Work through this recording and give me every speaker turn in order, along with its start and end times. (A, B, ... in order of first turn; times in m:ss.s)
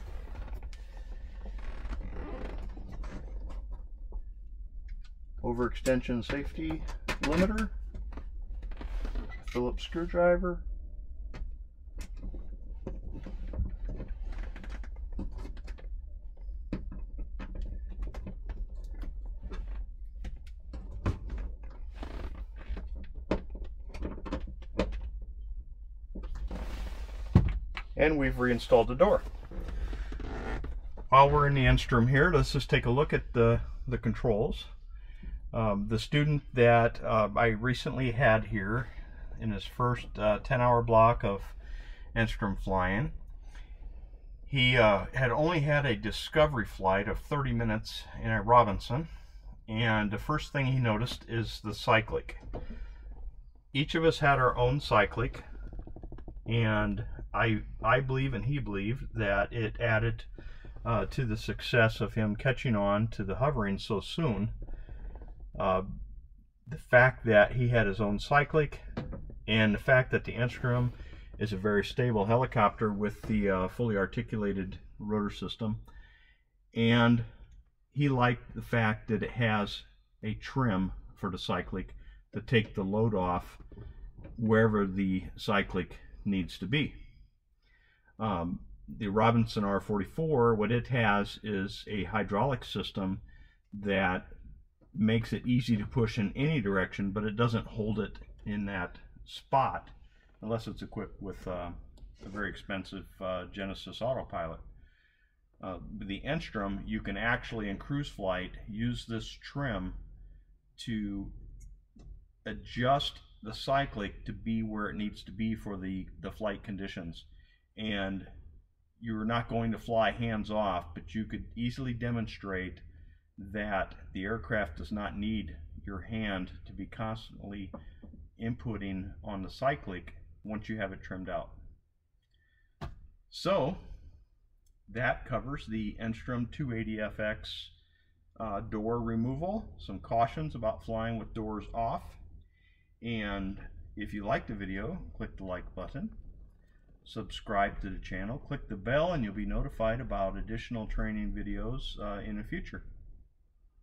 0:05.4-0:07.7 A
0:09.4-0:10.6 A
0:27.9-0:29.2 A
0:31.1-0:34.7 A
0:35.5-0:41.6 A
0:42.1-0:43.1 A
0:44.4-0:49.1 A
0:49.7-0:52.4 A
0:53.7-0:55.4 A
0:56.4-1:00.3 A
1:00.8-1:04.5 A
1:05.5-1:05.8 A
1:06.6-1:08.8 A
1:09.4-1:15.8 A
1:16.7-1:17.2 A
1:17.9-1:23.6 A
1:24.4-1:27.0 A
1:28.2-1:34.3 A
1:34.9-1:44.6 A
1:45.6-1:50.0 A
1:50.8-1:51.3 A
1:52.4-1:58.3 A
1:59.0-2:02.8 A
2:03.4-2:07.7 A
2:08.4-2:11.5 A
2:13.3-2:13.8 A
2:14.9-2:17.7 A
2:18.4-2:22.2 A
2:23.0-2:26.1 A
2:27.0-2:32.8 A